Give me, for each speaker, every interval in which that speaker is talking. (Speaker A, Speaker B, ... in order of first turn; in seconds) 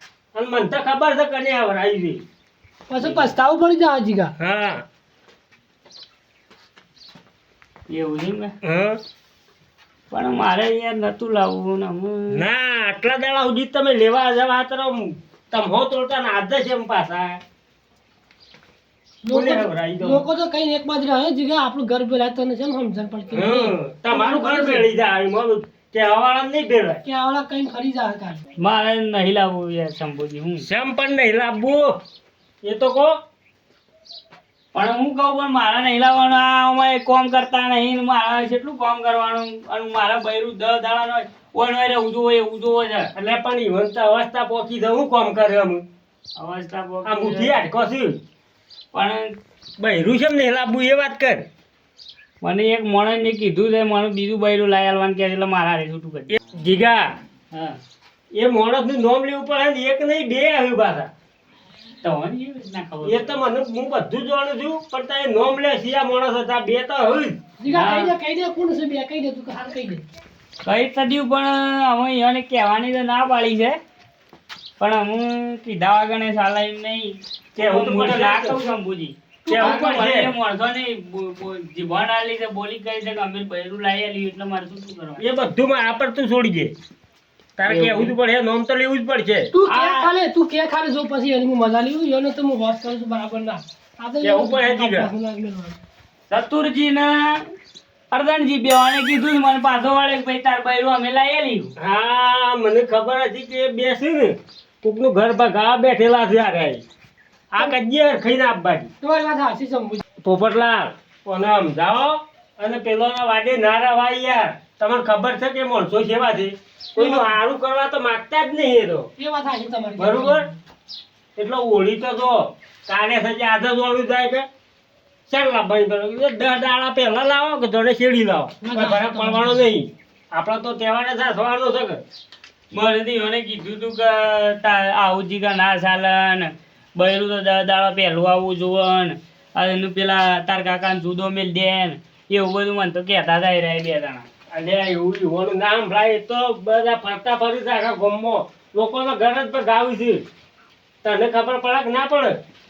Speaker A: 0.3-2.2, 4.4-4.8, 8.6-9.0, 12.3-17.4, 19.3-20.2, 23.3-27.0, 30.6-31.9, 32.6-33.1, 43.1-45.8, 47.0-48.2, 49.8-51.5, 56.6-57.1, 58.3-61.1, 63.0-67.4, 77.5-78.6, 79.5-80.3, 85.2-86.7, 87.6-89.5, 94.2-95.1, 101.8-106.8, 107.5-108.9, 110.2-119.1, 120.0-120.5, 121.3-124.5, 125.3-132.0, 144.5-150.2, 151.0-152.4
Speaker B: 2.9-4.3, 19.2-24.9, 27.0-28.4, 67.6-70.0, 79.5-79.9, 89.5-95.8, 109.0-110.0, 117.0-117.3, 119.2-120.6, 128.6-129.6
Speaker C: 7.9-8.5, 10.1-12.4, 28.6-30.6, 34.7-43.1, 46.4-47.6, 48.9-49.4, 52.4-56.4, 57.5-57.8, 62.0-63.4, 67.7-68.1, 70.6-73.8, 74.8-85.2, 87.7-88.1, 89.7-90.1, 96.3-97.5, 98.1-101.7, 132.7-144.2